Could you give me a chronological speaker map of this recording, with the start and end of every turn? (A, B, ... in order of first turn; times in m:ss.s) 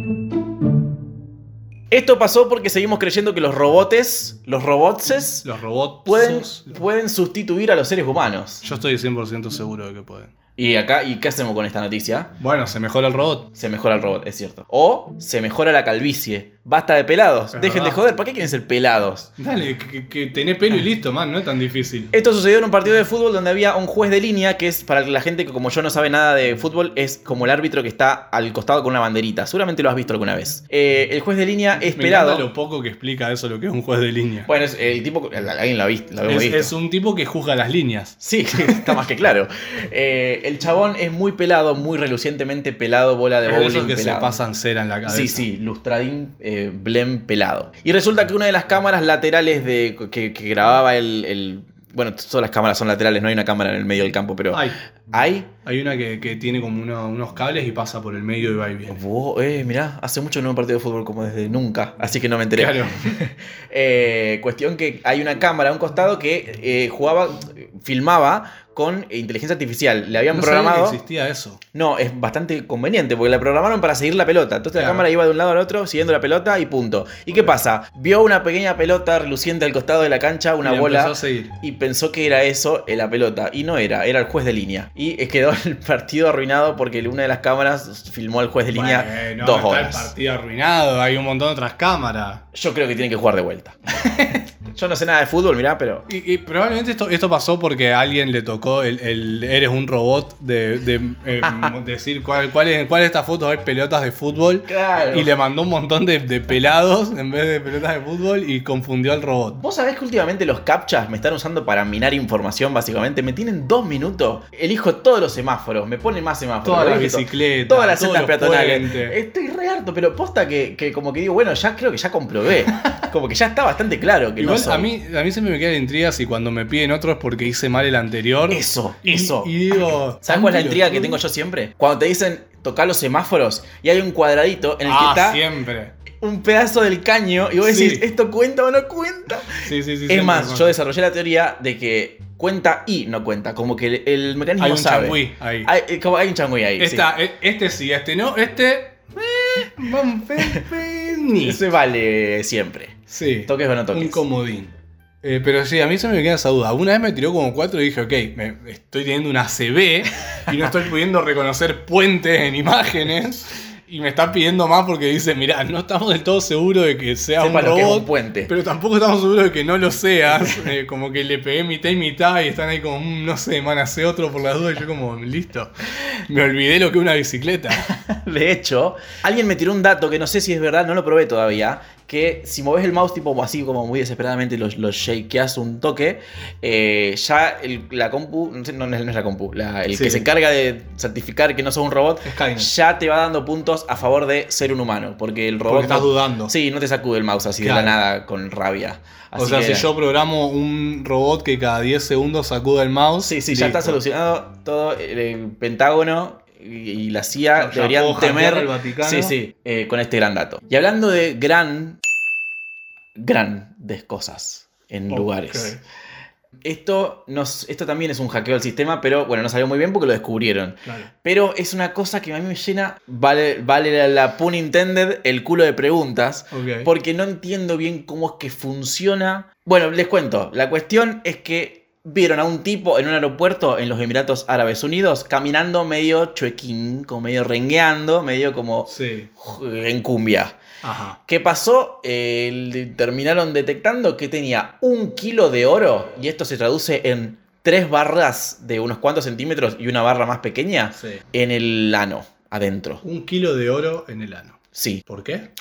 0:01.9-0:05.5 A
0:05.4-0:06.8 B
0:06.1-0:08.6 A
0:08.6-0:10.3 B
0:10.6-0:12.3 A
0:12.4-0:13.5 B
0:13.6-0:19.3 A
0:17.5-0:18.0 B
0:19.4-0:22.1 B
0:22.1-0:32.5 A
0:32.0-0:34.5 B
0:34.5-0:36.7 A
0:36.2-0:39.0 B
0:38.2-0:44.4 A
0:43.4-0:45.5 B
0:45.1-0:55.5 A
0:54.5-0:54.8 B
0:55.6-0:59.0 B
0:58.9-1:11.0 A
1:02.6-1:03.2 B
1:10.3-1:11.6 B
1:11.7-1:30.1 A
1:14.8-1:15.0 B
1:20.6-1:21.6 B
1:28.7-1:32.4 B
1:32.5-1:36.1 A
1:36.1-1:49.6 B
1:41.4-1:41.7 A
1:44.7-1:45.3 A
1:49.5-2:04.9 A
1:56.6-1:59.2 B
2:04.4-2:11.2 B
2:08.5-2:09.5 A
2:10.2-2:15.4 A
2:14.8-2:15.9 B
2:16.2-2:27.1 A
2:17.6-2:18.1 B
2:19.6-2:20.8 B
2:24.6-2:25.7 B
2:26.8-2:31.6 B
2:31.4-2:34.2 A
2:33.1-2:57.9 B
2:47.4-2:48.5 A
2:57.8-3:19.9 A
3:09.9-3:10.3 B
3:12.2-3:12.7 B
3:15.7-3:16.5 B
3:17.6-3:18.0 B
3:19.4-3:24.0 B
3:23.2-3:32.0 A
3:27.6-3:29.4 B
3:33.2-3:35.8 A
3:35.1-3:35.8 B
3:36.6-4:00.6 A
3:40.8-3:41.1 B
3:46.5-3:46.9 B
3:58.9-3:59.3 B
4:00.8-4:01.2 B
4:01.3-4:13.0 A
4:11.0-4:11.2 B
4:13.0-4:15.5 B
4:14.7-4:15.0 A